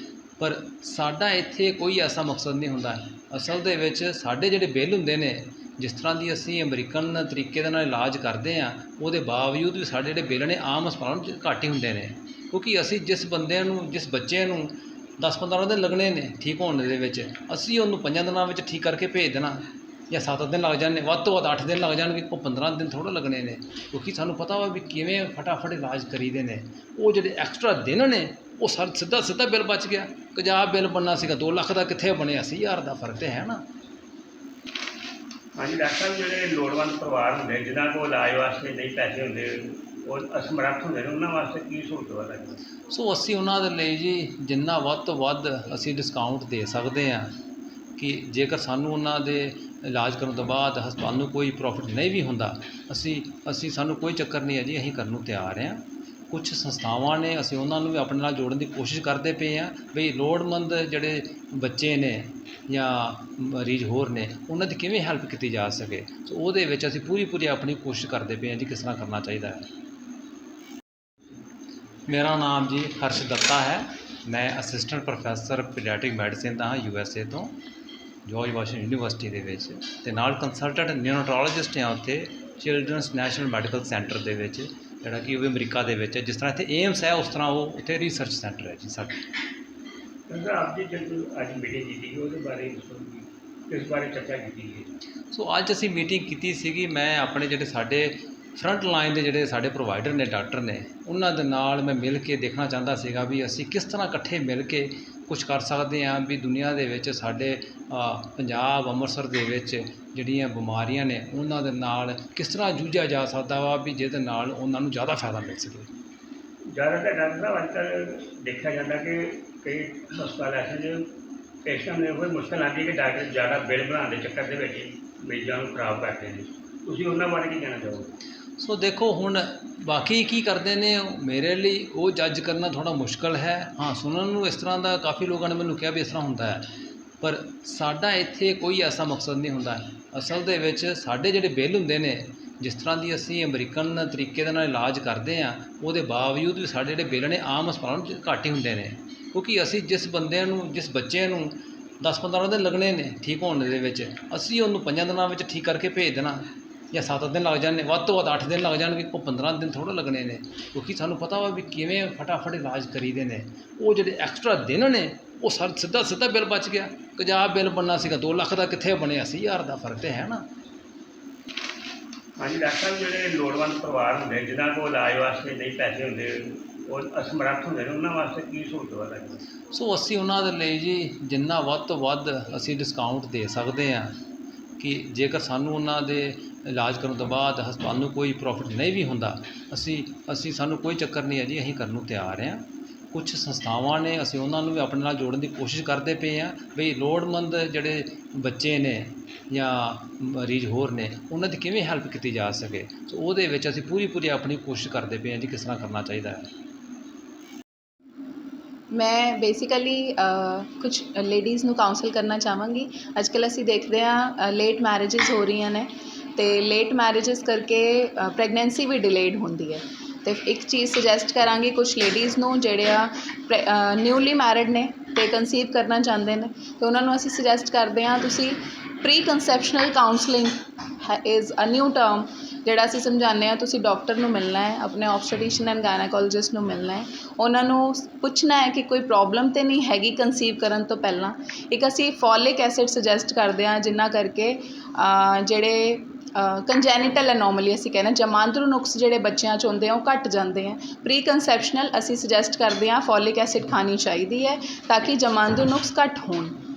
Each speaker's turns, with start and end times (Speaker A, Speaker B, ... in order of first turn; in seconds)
Speaker A: 0.4-33.6, 42.9-47.3, 48.0-69.7, 72.1-77.6, 78.2-89.2, 95.3-115.9, 128.6-136.7, 137.2-170.4, 179.7-184.1, 184.8-206.5
Speaker B: 35.5-42.6, 90.3-94.9, 116.7-121.0, 121.6-128.1, 172.4-179.4
Speaker C: 208.9-256.6